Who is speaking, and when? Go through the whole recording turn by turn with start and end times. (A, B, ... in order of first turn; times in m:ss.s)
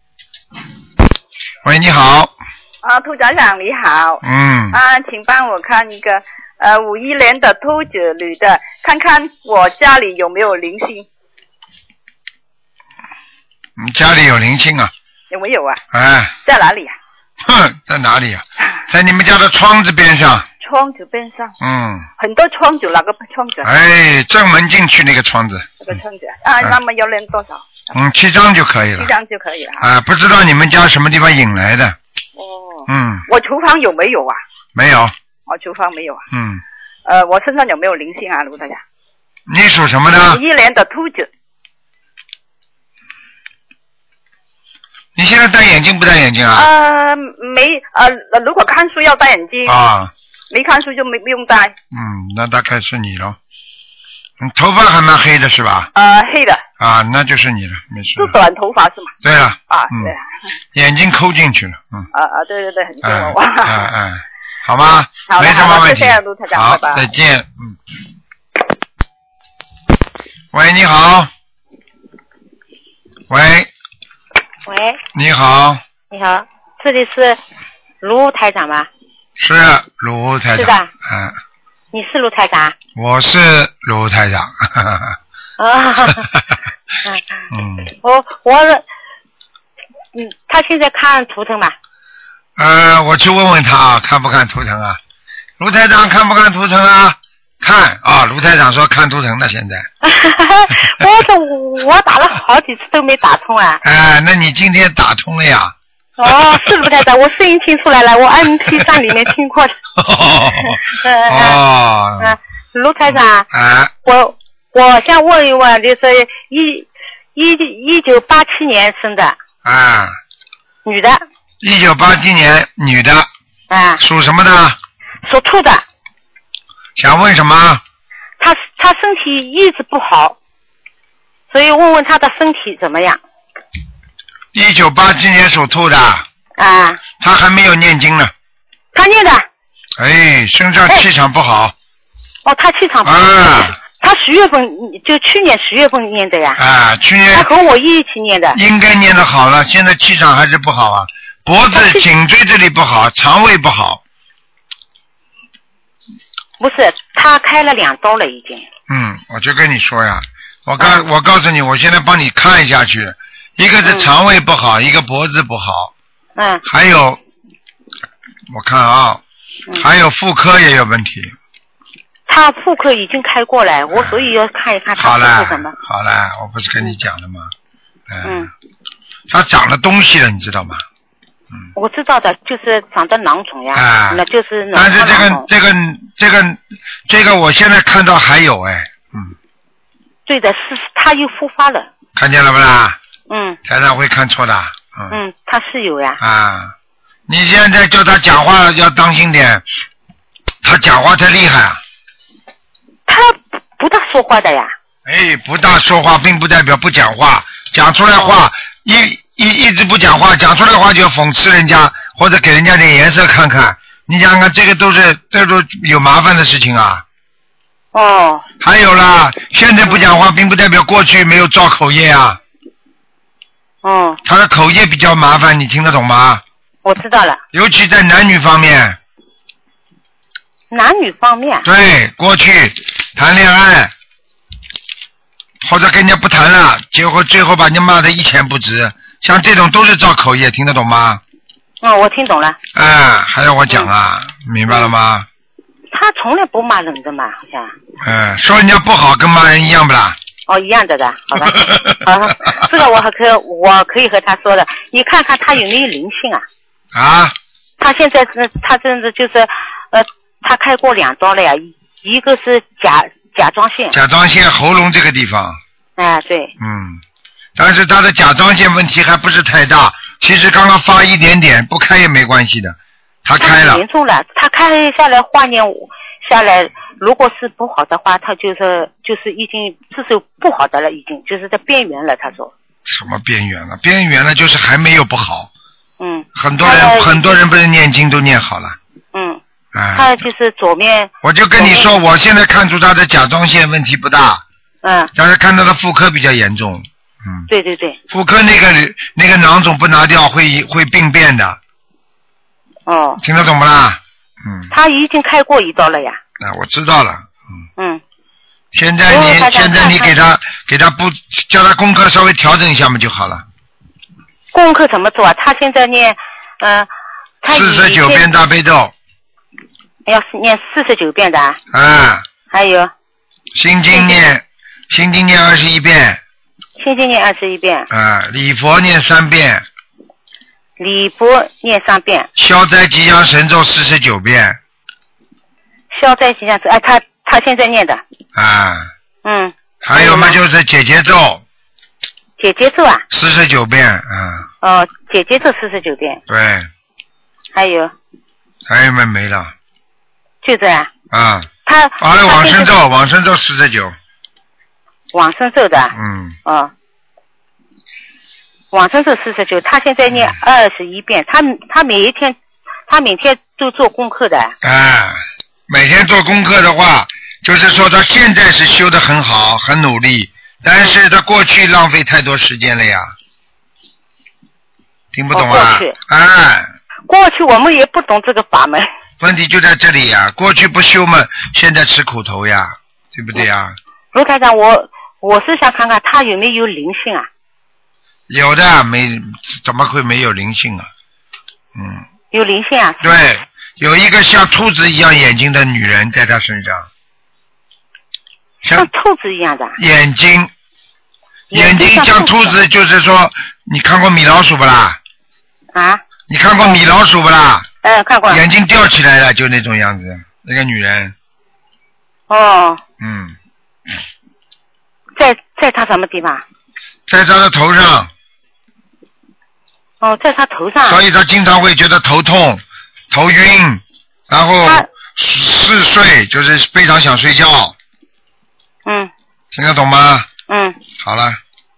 0:01.6-0:02.3 A
0:02.8-0:11.0 B
0:04.2-0:04.8 A
0:13.8-0:14.9 A
0:15.3-0:15.8 B
0:15.9-0:16.3 A
0:16.4-0:16.9 B
0:17.4-0:20.5 A
0:20.6-0:21.5 B
0:21.6-0:22.1 A
0:22.2-0:23.7 B
0:23.6-0:26.0 A
0:25.8-0:27.9 B
0:27.9-0:29.1 A
0:29.0-0:29.9 B
0:29.8-0:32.0 A
0:32.4-0:34.4 B
0:32.9-0:33.2 A
0:34.7-0:35.1 A
0:35.5-0:36.2 B
0:36.3-0:36.6 A
0:37.0-0:38.8 B
0:39.5-0:40.4 A
0:40.3-0:41.3 B
0:45.2-0:46.7 A
0:46.5-0:49.8 B
0:49.6-0:50.1 A
0:50.5-0:51.8 B
0:51.9-0:53.4 A
0:54.4-0:55.9 A
0:56.0-0:56.6 B
0:56.8-0:58.4 A
0:58.2-0:59.1 B
0:59.2-1:00.1 A
0:59.7-1:00.2 B
1:00.7-1:02.1 A
1:02.1-1:03.9 B
1:03.0-1:07.8 A
1:05.2-1:07.1 B
1:10.5-1:11.3 A
1:13.3-1:13.7 A
1:14.7-1:15.0 C
1:15.1-1:15.8 A
1:16.1-1:17.4 C
1:18.0-1:18.9 C
1:19.4-1:21.4 A
1:20.5-1:20.9 C
1:21.9-1:22.7 C
1:23.0-1:25.2 A
1:25.6-1:26.3 C
1:27.5-1:27.9 A
1:28.0-1:28.8 C
1:30.1-1:31.7 C
1:32.6-1:35.0 A
1:35.6-1:39.9 A
1:40.0-1:43.8 C
1:43.8-1:45.7 A
1:46.2-1:49.7 C
1:50.0-1:52.4 A
1:50.9-1:51.6 C
1:52.2-1:53.5 C
1:53.1-1:53.9 A
1:54.0-1:59.4 C
1:59.6-2:00.2 A
2:00.8-2:01.2 C
2:01.6-2:03.3 A
2:03.7-2:04.0 C
2:04.0-2:04.8 A
2:05.2-2:05.8 C
2:07.0-2:07.8 A
2:08.4-2:10.4 C
2:11.5-2:13.2 C
2:14.5-2:16.2 A
2:16.6-2:17.0 C
2:17.2-2:18.3 A
2:18.9-2:19.5 C
2:20.0-2:21.7 A
2:22.4-2:26.6 C
2:23.0-2:23.7 A
2:26.6-2:27.5 A
2:27.3-2:28.6 C
2:28.5-2:34.0 A
2:31.7-2:32.0 C
2:36.6-2:38.6 C
2:38.9-2:45.9 A
2:43.8-2:44.1 C
2:46.4-2:46.6 C
2:46.6-2:47.2 A
2:48.5-2:49.2 A
2:49.8-2:51.3 A
2:52.3-2:55.7 C
2:53.9-2:54.3 A
2:55.0-2:57.5 A
2:58.1-2:58.5 A
2:58.2-2:58.5 C
2:59.3-3:00.8 A
3:01.7-3:05.4 C
3:03.7-3:04.2 A
3:04.7-3:09.3 A
3:10.2-3:11.9 C
3:12.2-3:13.0 A
3:13.3-3:13.6 C
3:13.6-3:15.2 A
3:15.1-3:16.2 C
3:16.2-3:16.7 A
3:17.3-3:19.6 A
3:20.6-3:21.8 A
3:23.1-3:24.7 C
3:25.0-3:37.0 A
3:37.9-3:38.4 C
3:38.6-3:42.4 A
3:43.8-3:44.2 C
3:44.2-3:46.4 A
3:46.8-3:47.4 C
3:47.5-3:49.0 A
3:50.7-3:51.7 C
3:51.6-3:53.9 A
3:55.6-4:01.2 A
4:01.8-4:02.6 C
4:02.7-4:05.3 A
4:05.9-4:07.7 C
4:08.0-4:10.2 A
4:10.5-4:16.4 C
4:11.4-4:12.0 A
4:16.9-4:17.3 A
4:17.8-4:24.0 C
4:23.9-4:25.6 A
4:26.0-4:26.5 C
4:26.6-4:27.0 A
4:27.6-4:33.8 A
4:33.4-4:42.5 C
4:42.8-4:45.5 A
4:46.0-4:47.4 C
4:46.4-4:48.8 A
4:49.1-4:49.4 C
4:49.7-4:50.2 A
4:49.9-4:52.0 C
4:51.2-4:54.4 A
4:54.8-4:55.1 C
4:55.1-4:57.5 A
4:57.5-4:58.0 C
4:58.1-5:01.6 A
5:02.9-5:03.2 C
5:03.2-5:04.7 A
5:04.7-5:06.2 C
5:06.4-5:07.6 A
5:08.7-5:13.4 A
5:09.1-5:10.2 C
5:14.5-5:16.9 C
5:17.4-5:18.3 C
5:17.5-5:18.9 A
5:20.0-5:21.6 C
5:21.7-5:22.2 A
5:22.5-5:22.9 C
5:23.5-5:26.2 A
5:23.9-5:24.3 C
5:26.8-5:27.9 C
5:27.9-5:29.6 A
5:30.8-5:32.3 C
5:32.4-5:34.6 A
5:35.9-5:38.0 C
5:38.3-5:38.9 A
5:39.2-5:40.4 C
5:39.8-5:41.4 A
5:42.4-5:43.0 C
5:43.1-5:44.5 A
5:44.6-5:46.2 C
5:46.3-5:46.7 A
5:47.5-5:47.9 C
5:48.7-5:49.5 A
5:50.4-5:50.9 C
5:51.1-5:51.5 A
5:51.6-5:52.7 C
5:52.0-5:53.9 A
5:55.1-5:56.7 C
5:55.9-5:56.4 A
5:58.7-6:02.4 C
6:02.9-6:04.5 C
6:04.6-6:13.1 A
6:15.1-6:16.7 A
6:15.3-6:16.0 C
6:17.1-6:18.9 C
6:19.2-6:23.7 A
6:24.1-6:27.3 C
6:28.3-6:30.9 A
6:31.7-6:32.0 A
6:32.3-6:33.1 C
6:33.0-6:36.9 A
6:38.7-6:39.8 C
6:39.8-6:40.5 A
6:41.5-6:45.0 A
6:41.5-6:42.6 C
6:45.7-6:46.0 C
6:46.3-6:47.6 A
6:47.8-6:48.4 C
6:48.3-6:51.1 A
6:52.3-6:52.8 C
6:53.0-6:53.3 A
6:55.2-6:56.4 C
6:57.1-6:58.1 A
7:00.0-7:01.0 C
7:00.8-7:07.7 A
7:08.8-7:09.1 C
7:09.5-7:10.3 A
7:10.5-7:10.8 C
7:11.0-7:11.4 A